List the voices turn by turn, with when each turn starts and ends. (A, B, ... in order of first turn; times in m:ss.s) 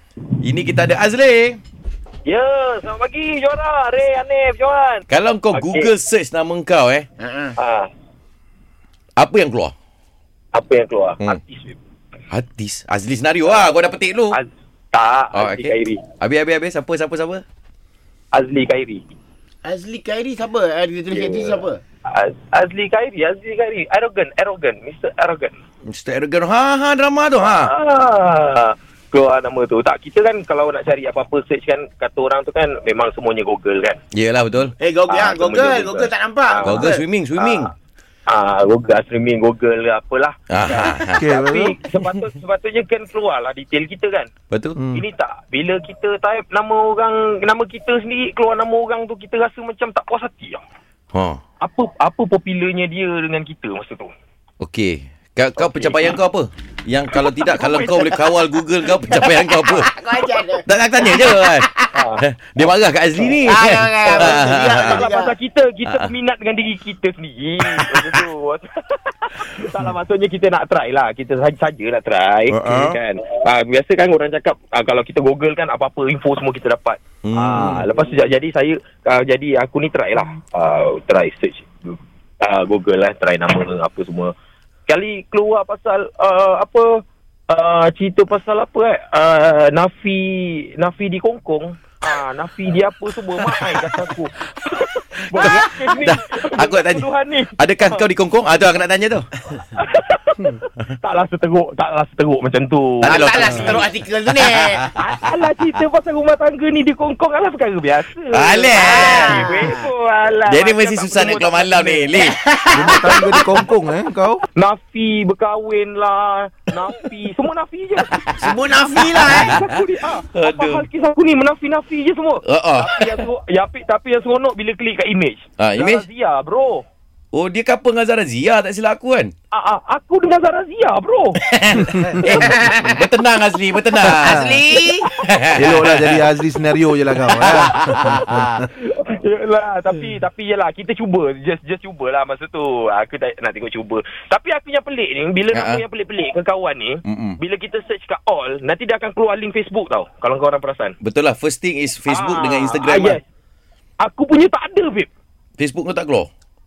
0:00.4-0:01.6 A
0:02.2-0:05.9 B
0:05.1-0:07.1 A
0:07.2-0:07.6 C
0:07.6-0:07.9 B
0:09.2-0:09.7 A
0:10.5-0:11.8 B
0:12.3-0:14.4 A
0:14.3-0:16.0 B
0:15.3-0:17.4 A
0:18.3-0:19.0 B
0:19.6-0:21.8 C
0:21.1-0:25.6 B
0:25.9-0:27.7 A
0:27.4-0:34.0 B
0:34.1-0:34.7 A
0:34.8-0:37.0 C
0:35.1-0:37.7 B
0:36.6-0:37.7 A
0:38.3-0:44.3 B
0:40.5-0:41.2 A
0:41.0-0:41.8 D
0:44.5-0:44.8 A
0:44.8-0:45.0 D
0:44.9-0:50.6 B
0:51.1-0:51.4 A
0:51.6-0:54.1 B
0:54.6-0:59.9 A
0:55.6-0:56.2 B
0:57.4-0:58.2 B
0:59.1-1:01.9 C
1:00.6-1:05.0 A
1:01.9-1:02.2 B
1:03.4-1:05.3 C
1:04.0-1:24.3 B
1:07.7-1:08.2 A
1:12.5-1:13.0 A
1:17.2-1:17.9 A
1:24.9-1:38.1 B
1:33.6-1:34.0 A
1:35.3-1:39.3 A
1:39.7-1:43.8 B
1:43.0-1:44.9 C
1:43.0-1:44.8 A
1:45.0-1:52.2 B
1:48.3-1:49.8 A
1:48.8-1:49.9 C
1:50.5-1:52.4 A
1:52.2-1:53.4 C
1:52.7-1:54.4 D
1:54.6-1:58.2 B
1:58.2-1:59.7 A
1:58.4-1:59.6 C
1:59.1-2:06.8 B
2:00.3-2:00.8 A
2:02.4-2:03.2 A
2:05.6-2:06.0 A
2:07.3-2:09.3 A
2:09.5-2:11.4 B
2:11.4-2:14.6 A
2:11.8-2:12.2 D
2:12.3-2:13.0 C
2:14.1-2:15.1 C
2:14.1-2:14.6 D
2:14.8-2:15.5 B
2:15.1-2:16.2 A
2:15.6-2:18.6 D
2:17.4-2:18.5 A
2:17.4-2:31.0 B
2:25.5-2:25.8 A
2:27.0-2:27.4 A
2:31.0-2:33.2 A
2:32.1-2:33.2 B
2:34.0-2:35.1 B
2:35.6-2:36.3 A